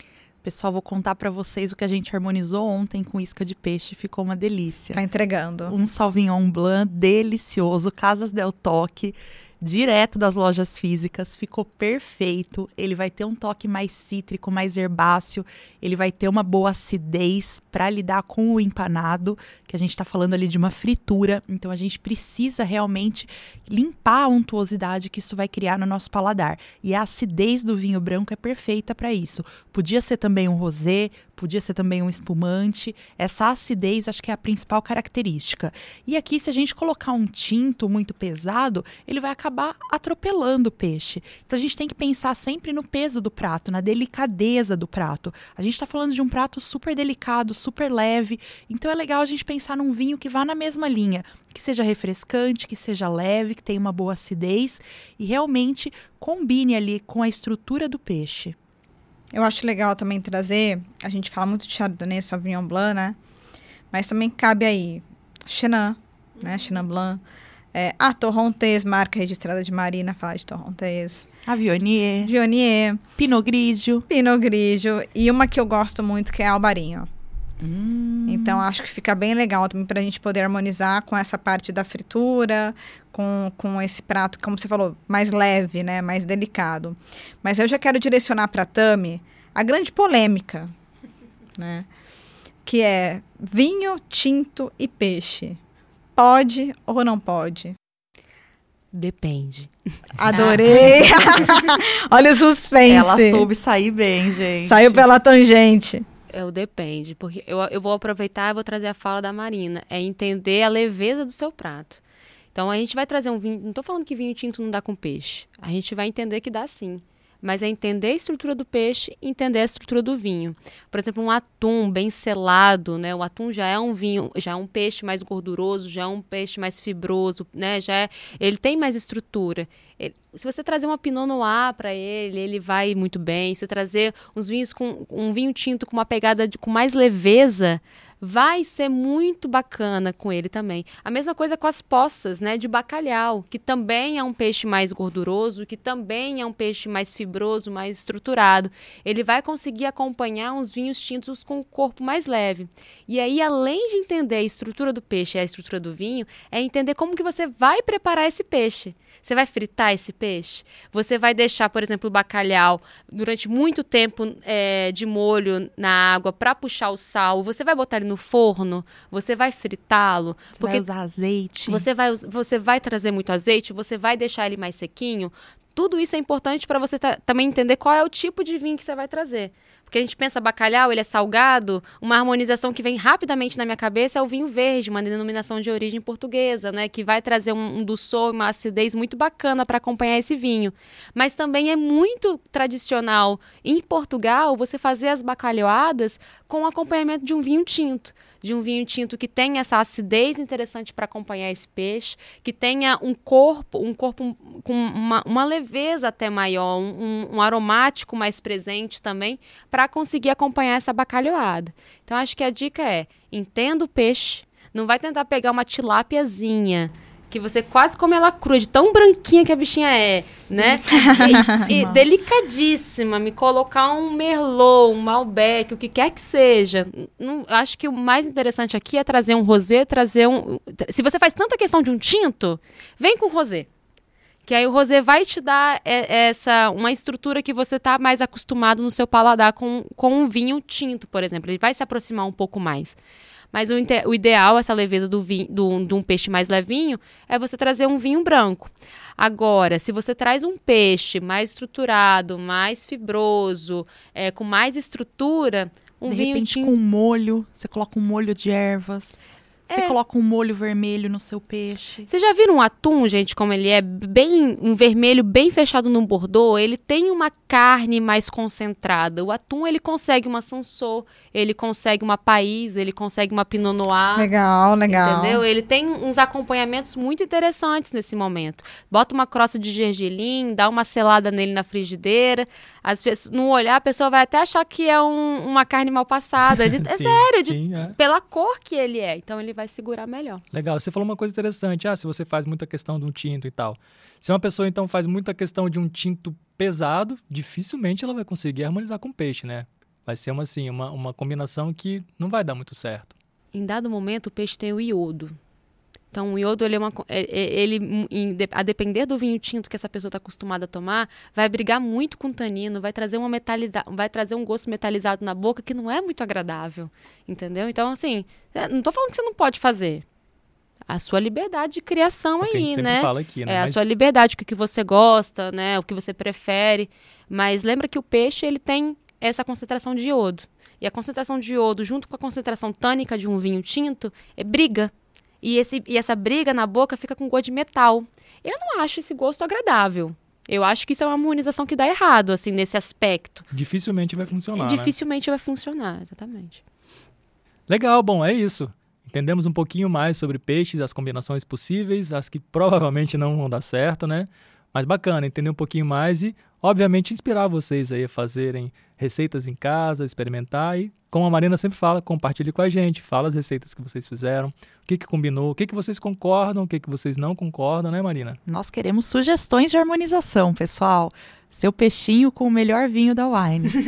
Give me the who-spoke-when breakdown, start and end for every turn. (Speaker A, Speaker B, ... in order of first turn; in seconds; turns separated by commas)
Speaker A: 0.4-5.0, Speaker B: 4.9-5.7, Speaker A: 5.6-58.5, Speaker B: 59.3-63.1, Speaker B: 63.9-67.2, Speaker B: 67.7-71.3, Speaker A: 71.5-72.3, Speaker B: 72.2-73.0, Speaker A: 73.2-74.0, Speaker B: 74.1-77.1, Speaker A: 77.6-78.6, Speaker B: 78.3-90.7, Speaker B: 91.6-91.9, Speaker B: 92.6-95.6, Speaker B: 96.2-97.7, Speaker C: 98.9-99.7, Speaker B: 100.2-103.5, Speaker C: 100.3-101.1, Speaker A: 102.8-105.0, Speaker B: 104.6-106.0, Speaker C: 106.3-112.0, Speaker C: 112.5-170.8, Speaker A: 170.6-171.8, Speaker C: 171.7-233.7, Speaker B: 220.7-221.7, Speaker A: 221.7-222.0, Speaker C: 234.4-243.0, Speaker C: 243.5-256.7, Speaker A: 256.0-259.2, Speaker C: 259.7-260.0, Speaker A: 259.7-262.1, Speaker C: 262.1-274.3, Speaker B: 274.1-275.4, Speaker C: 274.9-290.4, Speaker D: 286.5-288.0, Speaker D: 290.5-303.1, Speaker C: 303.5-305.4, Speaker C: 306.1-320.0, Speaker C: 320.9-343.4, Speaker D: 322.4-323.8, Speaker D: 343.5-344.9, Speaker C: 344.6-346.6, Speaker D: 347.7-368.4, Speaker A: 368.4-373.7